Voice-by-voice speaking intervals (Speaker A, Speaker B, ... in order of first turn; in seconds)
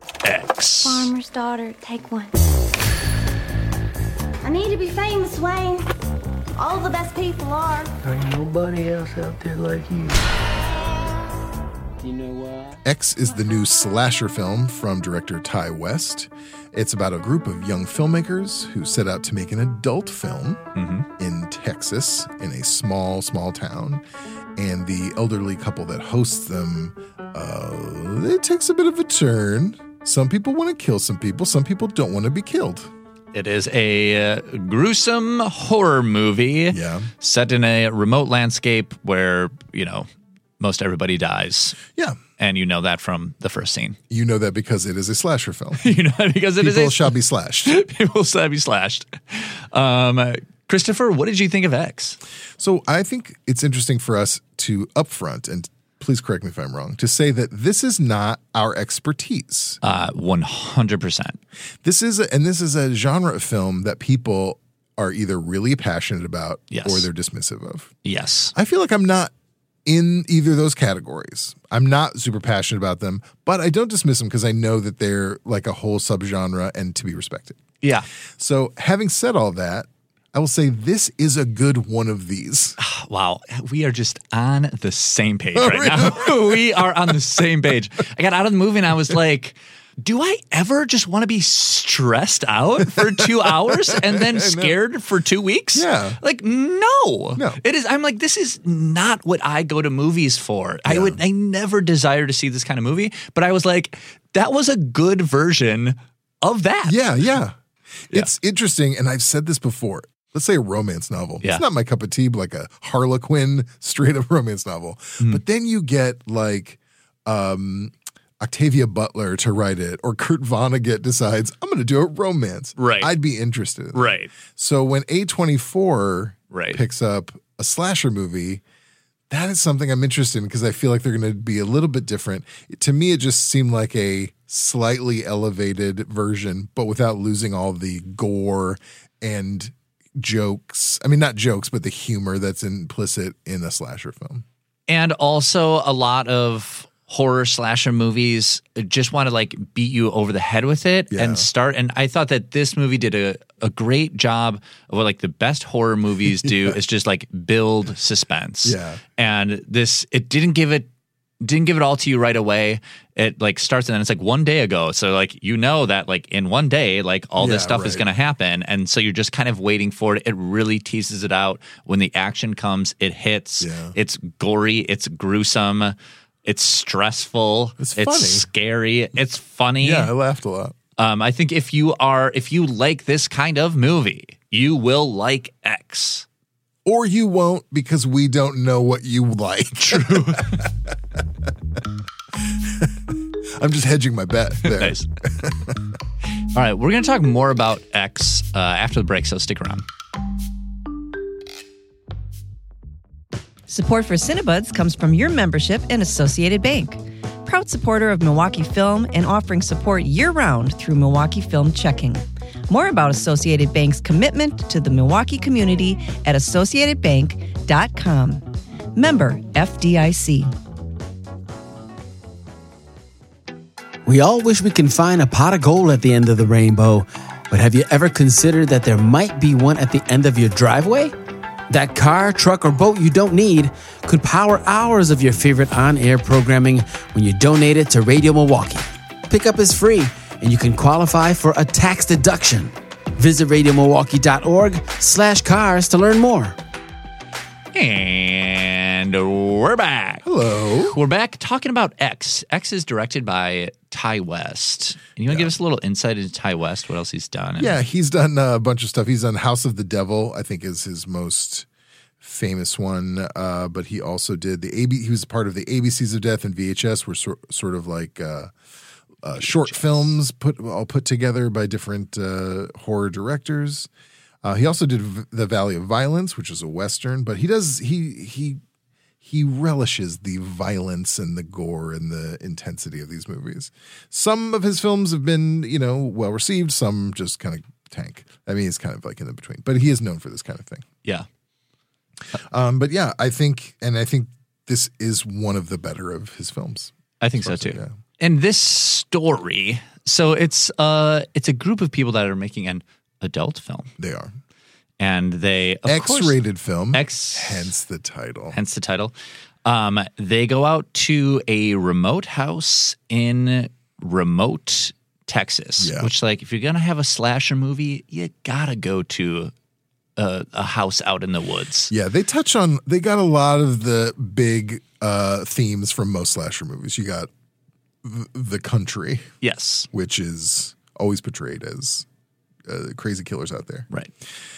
Speaker A: 0.2-1.1, 20.8-21.1, 33.3-40.1, 40.6-41.8, 42.4-44.0, 45.8-52.2, 59.8-61.4, 66.7-67.1, 68.0-68.5, 77.8-78.1, 82.8-107.0, 122.8-123.1, 123.9-124.3, 126.5-126.8, 144.9-160.9, 161.4-180.1, 181.0-186.3, 189.8-190.6, 194.7-195.0, 196.5-199.8, 247.7-250.3, 250.8-257.8, 269.4-270.0, 297.2-303.9, 305.0-306.4, 306.9-307.7, 308.5-309.1, 309.6-319.5, 320.2-321.9, 329.4-329.9
Speaker B: 0.8-2.4, 4.4-5.8, 6.6-7.9
Speaker C: 8.1-10.2, 12.0-12.6
Speaker D: 12.8-20.6, 21.2-24.0, 24.6-32.9, 36.7-37.1, 44.1-45.9, 46.6-47.7, 52.6-59.8, 61.8-67.9, 68.5-69.3, 69.9-77.6, 78.4-82.8, 85.5-87.2, 92.9-94.8, 95.8-96.2, 97.3-97.6, 100.9-101.2, 106.8-107.6, 108.1-128.6, 129.3-144.4, 151.1-151.5, 156.4-156.7, 158.7-159.0, 167.4-168.1, 173.6-173.9, 177.8-178.5, 179.8-180.8, 186.8-190.9, 192.5-193.0, 193.5-195.8, 250.2-251.0, 257.6-261.7, 262.2-268.5, 269.2-273.9, 274.4-278.6, 279.2-290.9, 292.4-297.9, 304.0-304.3, 305.9-308.6, 315.8-316.1, 321.9-327.3, 328.0-329.3, 329.9-332.1, 332.7-333.9
Speaker E: 203.7-220.5
Speaker F: 224.1-231.1, 231.7-246.6